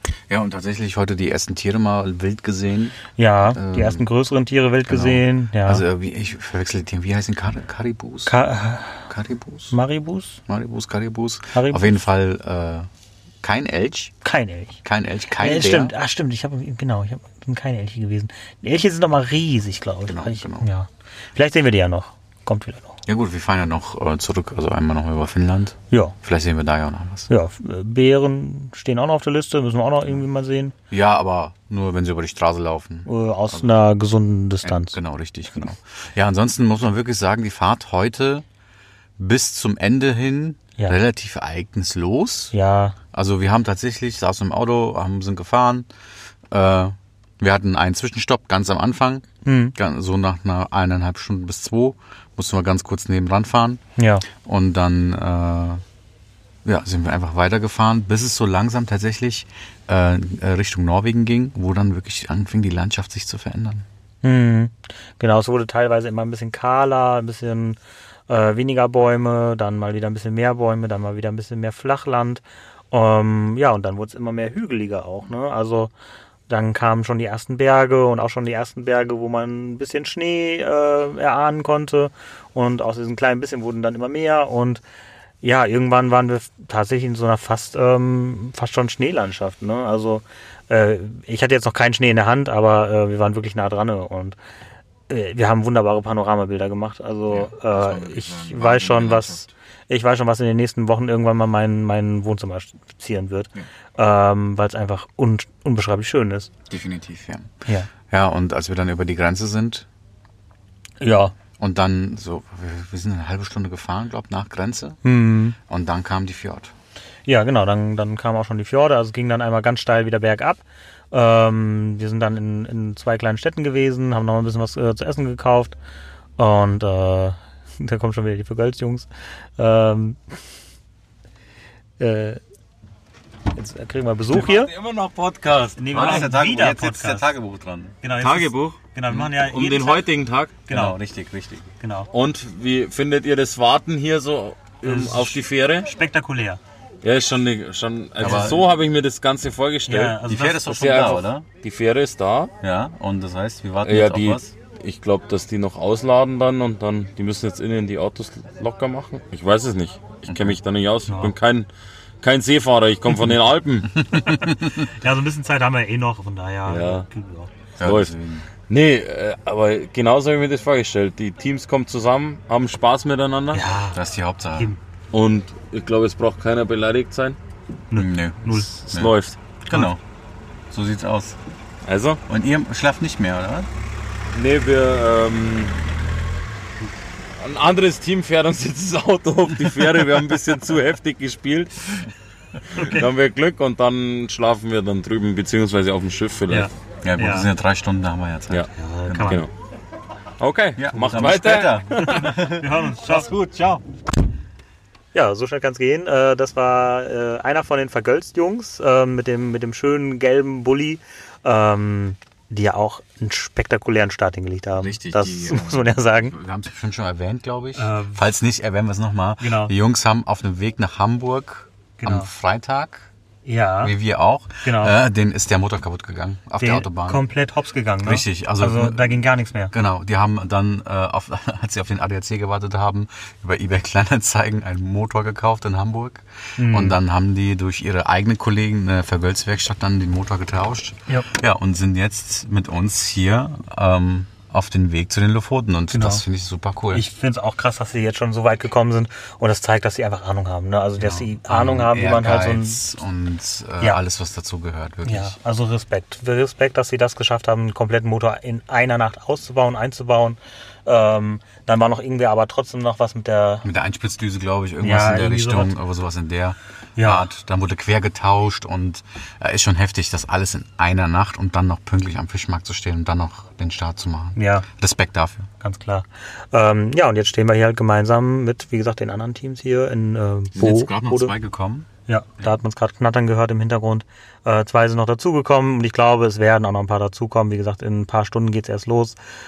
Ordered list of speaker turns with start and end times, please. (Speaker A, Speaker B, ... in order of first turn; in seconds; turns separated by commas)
Speaker A: 0.3-4.0, Speaker B: 3.1-5.9, Speaker A: 4.9-8.3, Speaker B: 8.2-9.1, Speaker A: 9.1-9.8, Speaker B: 9.7-10.4, Speaker A: 10.5-12.9, Speaker B: 11.5-12.0, Speaker A: 13.4-14.1, Speaker B: 14.2-14.8, Speaker A: 14.8-15.9, Speaker B: 15.3-23.0, Speaker A: 20.1-20.6, Speaker A: 23.1-27.3, Speaker B: 25.9-26.1, Speaker B: 27.3-30.8, Speaker A: 30.9-33.8, Speaker B: 33.1-35.0, Speaker A: 34.6-38.4, Speaker A: 39.2-42.5, Speaker B: 42.5-43.0, Speaker A: 43.1-45.9, Speaker A: 46.5-49.2, Speaker B: 49.4-49.8, Speaker A: 49.8-53.8, Speaker B: 54.0-54.3, Speaker A: 54.4-55.8, Speaker A: 56.6-63.8, Speaker B: 64.2-75.9, Speaker B: 76.5-84.8, Speaker B: 85.4-94.4, Speaker B: 95.1-106.5, Speaker A: 97.3-99.5, Speaker A: 106.7-107.5, Speaker B: 107.7-107.9, Speaker A: 108.1-109.9, Speaker B: 111.0-111.3, Speaker A: 111.6-115.0, Speaker B: 115.0-115.6, Speaker A: 115.7-116.7, Speaker B: 117.3-125.8, Speaker B: 126.4-130.2, Speaker B: 132.0-132.4, Speaker B: 133.5-134.7, Speaker C: 134.3-136.3, Speaker B: 135.8-137.3, Speaker A: 135.9-138.0, Speaker B: 138.0-140.1, Speaker C: 138.2-140.6, Speaker B: 140.6-141.0, Speaker A: 140.7-141.7, Speaker B: 141.8-142.1, Speaker C: 142.1-145.9, Speaker B: 144.8-146.6, Speaker C: 147.0-152.5, Speaker A: 148.2-148.7, Speaker B: 149.9-150.9, Speaker A: 150.2-151.5, Speaker A: 152.6-154.5, Speaker C: 153.8-161.7, Speaker A: 160.2-160.6, Speaker B: 161.1-161.3, Speaker C: 162.2-164.1, Speaker A: 164.0-164.8, Speaker B: 164.2-167.5, Speaker C: 166.7-167.1, Speaker A: 167.8-168.5, Speaker C: 167.8-168.1, Speaker C: 168.7-173.6, Speaker B: 173.5-174.0, Speaker A: 173.9-174.7, Speaker C: 175.1-177.4, Speaker B: 177.9-178.8, Speaker A: 177.9-179.1, Speaker C: 178.9-179.4, Speaker A: 179.7-180.0, Speaker A: 180.7-181.4, Speaker C: 181.8-182.2, Speaker A: 182.3-183.7, Speaker C: 184.3-185.8, Speaker C: 187.4-192.1, Speaker C: 192.7-196.7, Speaker B: 192.8-193.1, Speaker B: 196.5-197.5, Speaker A: 197.0-199.4, Speaker B: 198.7-199.5, Speaker C: 199.2-199.5, Speaker C: 200.4-202.4, Speaker A: 200.8-203.8, Speaker B: 202.1-203.3, Speaker B: 205.1-216.3, Speaker A: 214.8-223.1, Speaker B: 217.8-218.3, Speaker B: 219.4-219.7, Speaker B: 222.0-222.3, Speaker B: 223.4-223.9, Speaker A: 223.8-227.2, Speaker B: 224.6-225.0, Speaker B: 226.6-229.7, Speaker A: 228.0-247.0, Speaker B: 236.6-237.0, Speaker B: 245.9-246.2, Speaker B: 246.9-252.8, Speaker A: 251.0-255.4, Speaker B: 255.0-263.7, Speaker A: 263.6-275.5, Speaker B: 264.8-265.8, Speaker B: 267.0-267.3, Speaker B: 274.4-274.7, Speaker B: 275.6-281.4, Speaker A: 280.5-281.9, Speaker B: 282.1-289.2